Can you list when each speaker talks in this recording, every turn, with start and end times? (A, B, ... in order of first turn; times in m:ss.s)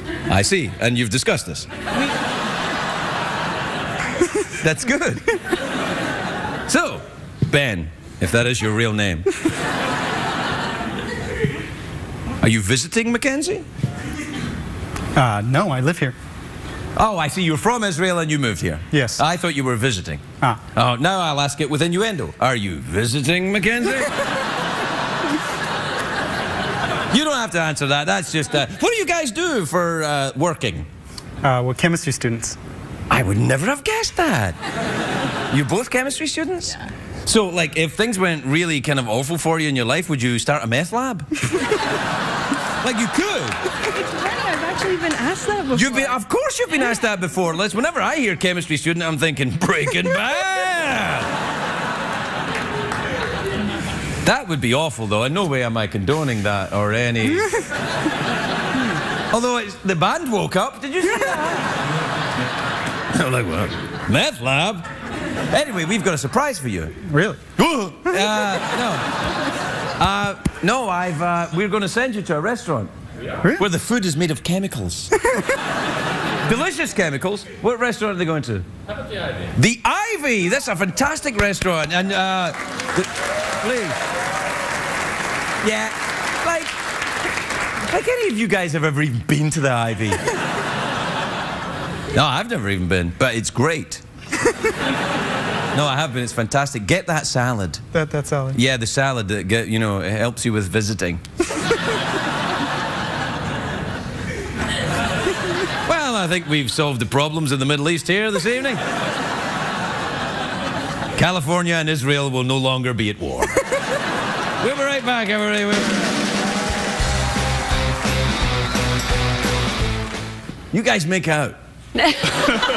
0:00.3-0:01.7 A
0:04.6-0:05.2 A
0:06.7-0:09.2 A
0:12.4-0:13.6 A
0:15.1-0:16.1 B
0:17.0-0:20.2 A
0:18.9-0:19.2 B
0:20.7-0:24.1 A
0:27.1-0:30.9 A
0:31.4-0:32.6 B
0:33.1-0:34.6 A
0:35.5-0:36.7 A
0:37.2-0:41.3 A
0:42.8-0:43.6 A
0:43.9-0:46.1 C
0:45.7-0:51.3 A
0:54.2-0:57.5 A
0:59.3-1:01.6 A
1:03.1-1:04.8 A
1:05.5-1:06.9 A
1:07.0-1:07.5 B
1:07.6-1:09.1 A
1:10.0-1:12.9 A
1:13.6-1:15.1 A
1:16.4-1:18.7 A
1:19.6-1:23.1 A
1:23.6-1:24.0 A
1:25.6-1:26.8 A
1:27.9-1:30.2 A
1:32.1-1:34.0 A
1:35.7-1:37.8 A
1:37.9-1:38.6 B
1:38.5-1:41.2 A
1:45.8-1:48.8 A
1:51.1-1:53.6 A
1:54.6-1:56.2 A
2:00.7-2:01.6 A